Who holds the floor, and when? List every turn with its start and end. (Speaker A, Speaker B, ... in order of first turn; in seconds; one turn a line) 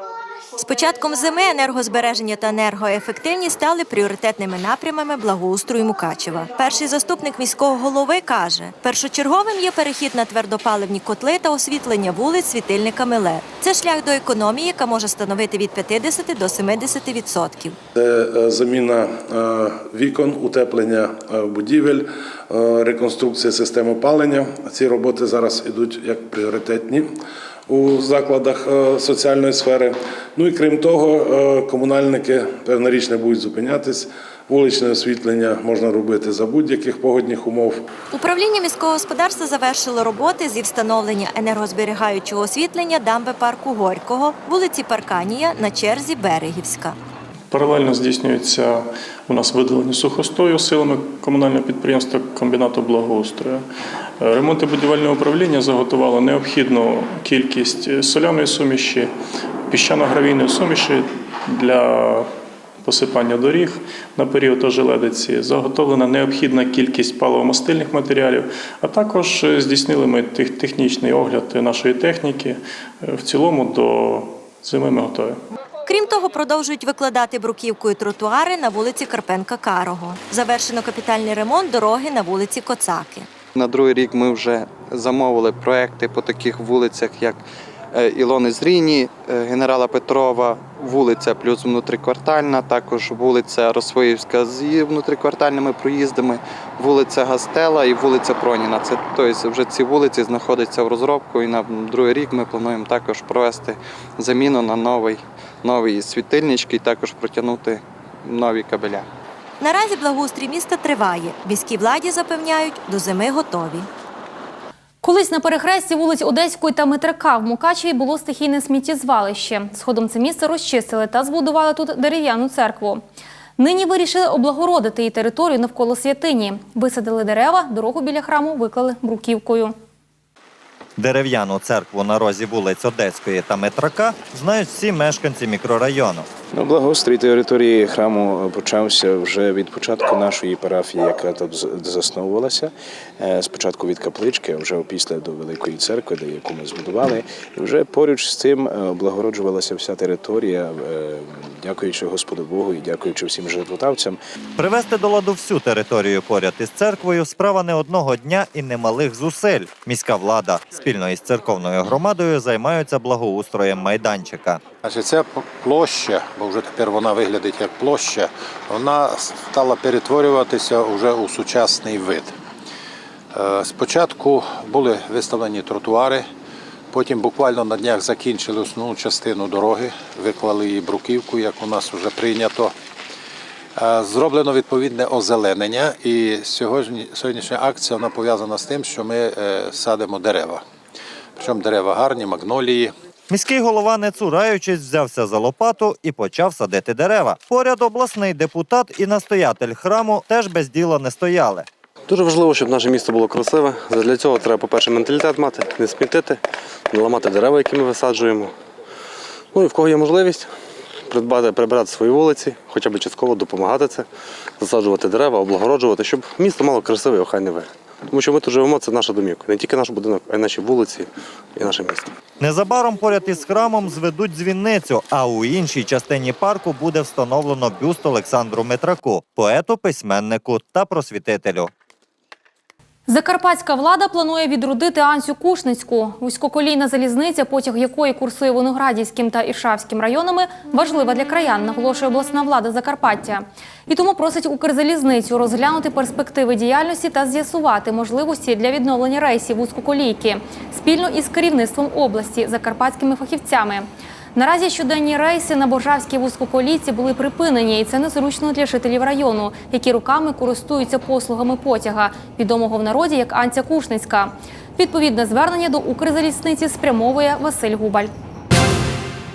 Speaker A: 0.6-17.8
Speaker B: 17.9-27.1
Speaker B: 27.7-37.8
Speaker A: 38.1-47.0
Speaker C: 47.5-53.7
Speaker C: 54.2-59.1
Speaker C: 59.7-62.3
Speaker C: 62.8-75.4
Speaker A: 75.9-83.3
Speaker D: 83.5-87.4
Speaker D: 87.9-109.1
Speaker A: 109.6-113.9
Speaker E: 115.0-123.0
Speaker E: 123.6-129.7
Speaker F: 131.0-136.3
Speaker G: 136.5-154.2
Speaker F: 154.6-164.6
Speaker H: 164.8-172.3
Speaker H: 173.3-176.3
Speaker H: 176.9-182.7
Speaker H: 183.8-190.6
Speaker H: 191.4-192.9
Speaker F: 193.3-201.7
Speaker I: 202.1-208.5
Speaker I: 209.5-210.5
Speaker I: 211.1-214.1
Speaker I: 214.6-222.1
Speaker F: 222.4-231.7
Speaker E: 233.1-268.1